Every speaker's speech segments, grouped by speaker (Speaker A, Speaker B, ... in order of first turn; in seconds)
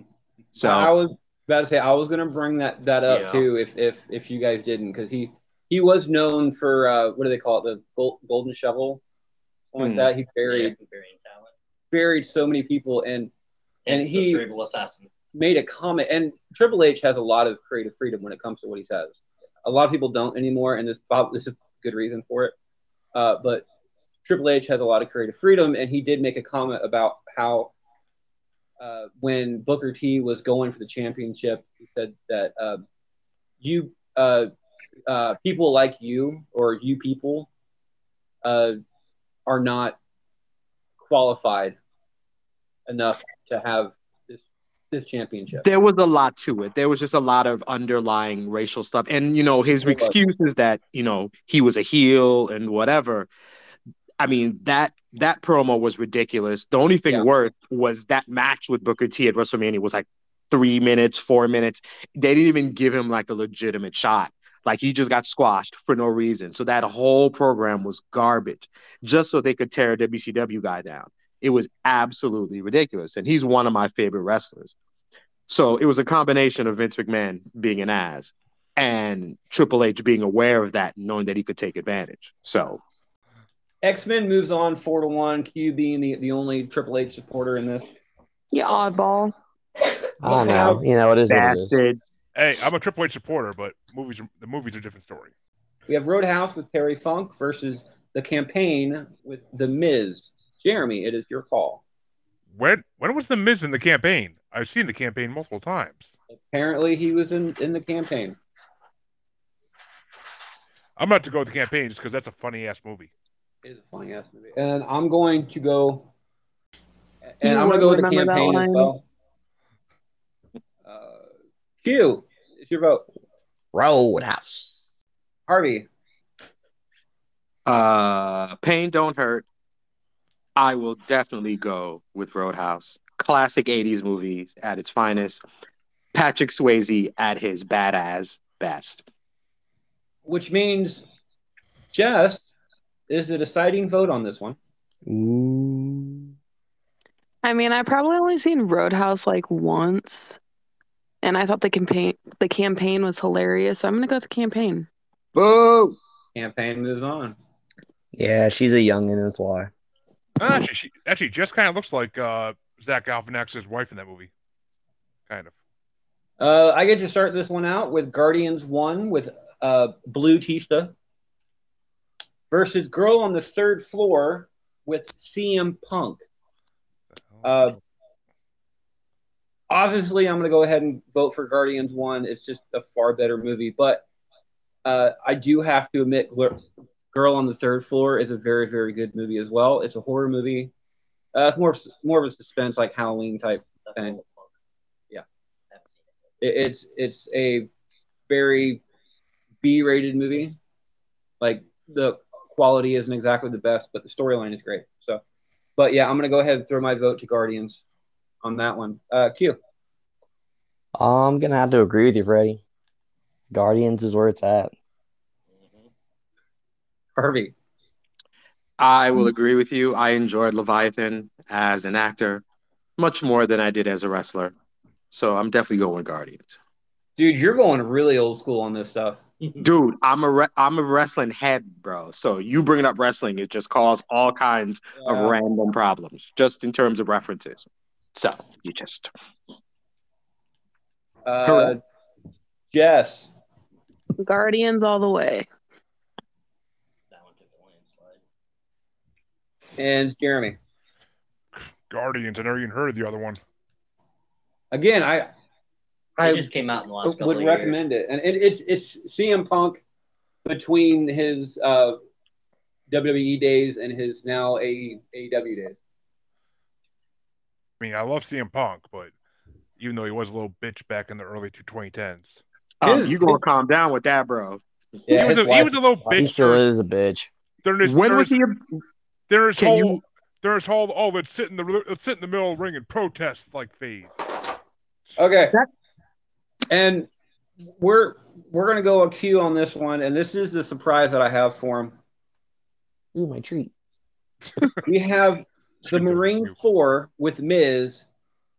Speaker A: 0.6-0.9, 9.8-10.1, 45.6-53.3, 54.2-74.8, 75.5-82.8, 91.3-92.0, 127.7-129.4, 130.6-135.4, 136.1-139.1, 155.3-156.0, 218.8-222.4, 223.0-224.5, 225.1-226.6, 229.6-239.1, 241.4-241.7, 272.8-274.6, 277.8-278.6, 279.6-280.0
Speaker B: 0.6-9.0, 9.7-10.7, 11.9-13.3, 13.9-14.4, 15.3-22.6, 23.1-23.7, 24.2-27.7, 28.8-32.8, 33.6-34.5, 35.1-37.5, 38.4-38.8, 39.5-40.0, 41.0-41.8, 42.9-45.7, 49.8-50.1, 83.8-87.9, 90.2-90.8, 95.9-101.8, 106.3-108.4, 113.6-116.1, 117.3-119.0, 120.8-121.3, 121.8-123.0, 125.5-125.9, 140.3-141.1, 141.9-142.5, 143.1-144.6, 156.3-157.4, 166.4-170.9, 172.5-176.2, 177.4-177.8, 179.7-184.1, 184.8-186.6, 187.1-190.7, 191.3-194.2, 196.4-197.7, 198.3-198.8, 199.6-200.6, 201.4-205.2, 205.8-207.8, 208.4-209.6, 217.2-217.5, 227.2-229.2, 235.0-235.4, 241.3-241.8, 242.7-243.3, 249.8-250.6, 254.7-255.3, 256.2-256.5, 257.0-259.8, 260.4-262.0, 262.9-265.8, 272.8-273.4, 275.1-275.8, 285.2-285.6, 286.7-287.1, 287.8-292.0, 294.9-298.1
Speaker C: 3.1-3.5, 10.4-11.5, 13.9-15.1, 193.8-194.5, 215.6-215.9, 247.1-248.2, 256.2-257.8
Speaker D: 88.5-89.3, 117.4-118.9, 147.4-150.4, 151.2-154.9, 244.2-245.5
Speaker E: 90.2-91.8, 123.7-125.0, 145.1-146.3, 158.1-159.7, 211.0-212.6, 213.5-214.7, 276.1-277.3, 293.1-293.7
Speaker F: 92.3-95.3, 102.5-106.1, 111.0-113.1, 160.4-164.3, 177.3-177.7, 251.9-253.4, 267.8-269.1, 269.8-272.4, 275.1-276.7, 277.6-278.4, 279.3-284.1, 295.9-296.5